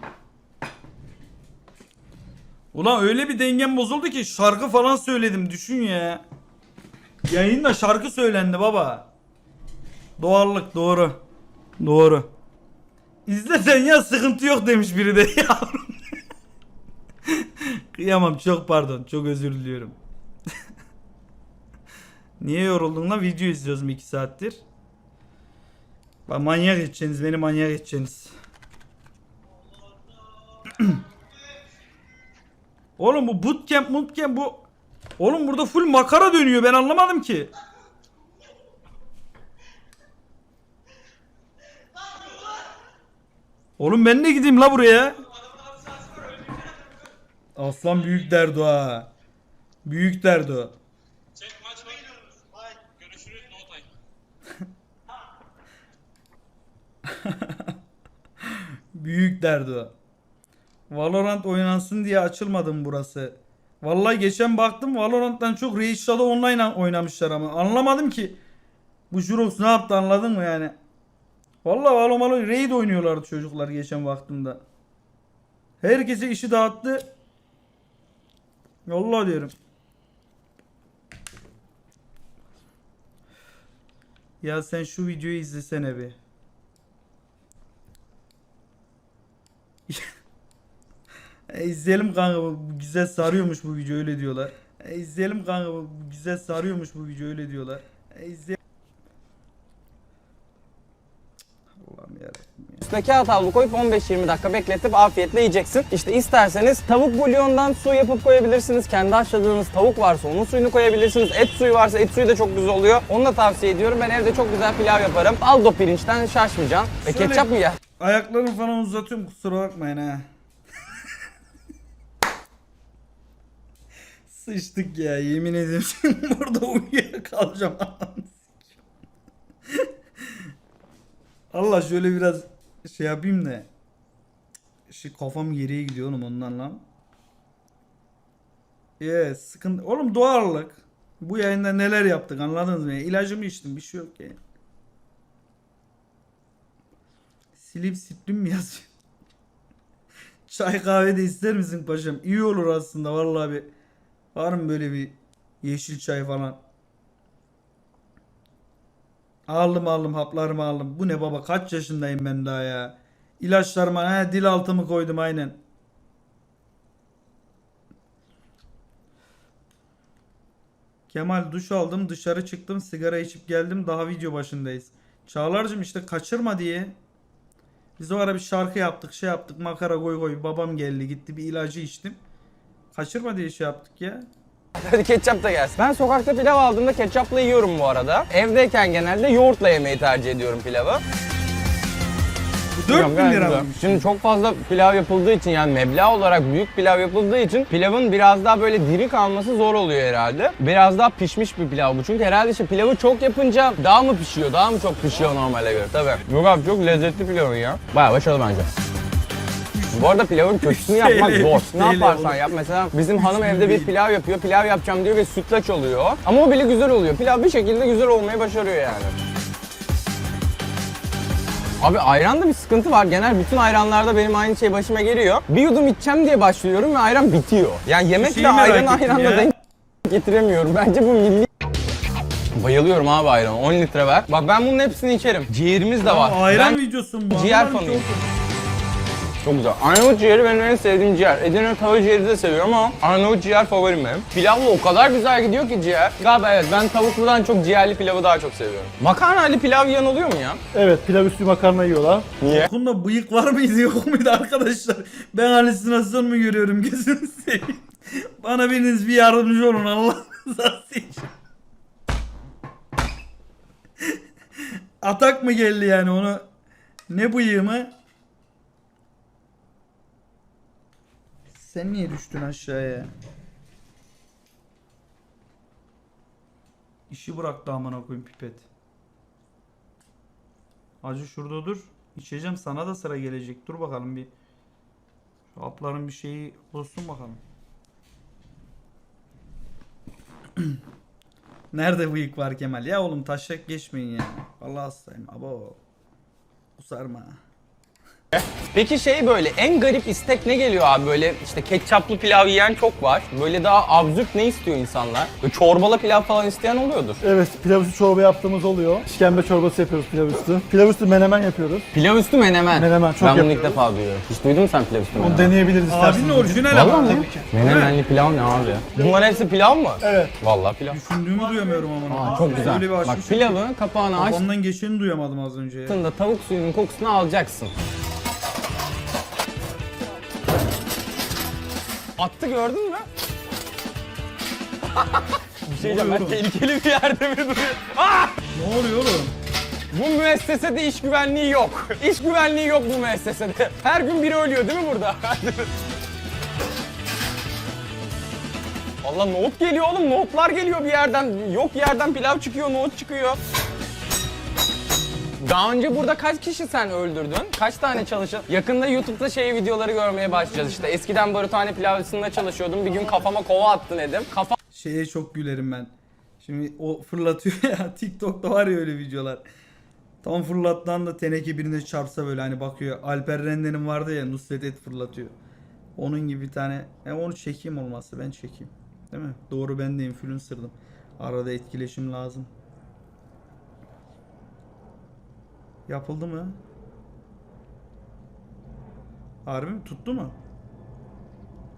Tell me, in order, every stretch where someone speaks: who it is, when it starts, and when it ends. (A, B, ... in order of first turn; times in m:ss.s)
0:02.7-0:06.2 A
0:07.3-0:09.1 A
0:10.2-0:11.2 A
0:11.8-0:12.3 A
0:13.2-0:15.9 A
0:17.3-0:20.0 A
0:22.4-0:24.6 A
0:26.3-0:28.3 A
0:30.7-0:31.0 A
0:33.0-0:34.7 A
0:35.2-0:37.5 A
0:43.8-0:45.2 A
0:47.6-0:49.1 A
0:49.8-0:50.8 A
0:57.1-0:57.7 A
0:58.5-0:59.9 A
1:00.9-1:08.4 A
1:09.1-1:10.8 A
1:11.6-1:14.6 A
1:15.8-1:17.1 A
1:18.8-1:19.5 A
1:24.4-1:26.2 A
1:31.5-1:38.6 A
1:41.8-1:42.9 A
1:42.9-1:57.8 B
1:57.0-1:57.5 A
1:58.0-2:00.3 A
2:04.3-2:08.6 A
2:11.5-2:13.7 A
2:14.9-2:16.8 A
2:19.0-2:24.4 A
2:27.6-2:28.9 A
2:30.5-2:33.7 A
2:34.3-2:36.6 A
2:39.5-2:45.6 A
2:51.1-2:57.0 A
2:58.0-3:02.2 A
3:02.9-3:04.3 A
3:04.8-3:11.0 B
3:12.8-3:14.0 A
3:12.9-3:28.7 B
3:29.9-3:39.1 B
3:30.6-3:32.4 A
3:33.2-3:33.9 A
3:41.8-3:49.5 B
3:48.2-3:49.5 A
3:50.0-3:51.5 B
3:52.5-3:56.8 B
3:56.0-3:58.3 A
3:57.3-3:58.0 B
3:59.4-4:10.6 B
4:10.7-4:12.3 C
4:12.4-4:12.7 B
4:12.4-4:21.3 A
4:25.0-4:26.5 A
4:27.1-4:27.9 A
4:31.6-4:33.1 A
4:37.1-4:38.7 A
4:41.0-4:44.3 A
4:45.5-4:47.4 A
4:51.7-4:55.8 A
4:56.8-4:57.4 A
4:58.3-5:07.2 B
5:07.2-5:11.9 C
5:11.9-5:15.5 B
5:12.7-5:13.8 C
5:15.2-5:17.5 C
5:15.9-5:18.0 A
5:16.7-5:21.0 B
5:18.5-5:19.5 C
5:20.0-5:20.3 C
5:20.9-5:23.6 A
5:21.4-5:22.8 C
5:22.1-5:24.4 B
5:24.2-5:26.0 A
5:25.9-5:27.7 B
5:32.2-5:33.1 B
5:35.0-5:38.4 B
5:35.8-5:36.4 A
5:38.5-5:39.3 A
5:39.9-5:45.7 B
5:49.0-5:53.4 B
5:55.4-6:04.6 B
6:04.7-6:09.4 A
6:10.2-6:15.4 A
6:16.0-6:22.5 A
6:25.9-6:26.6 A
6:29.5-6:30.4 A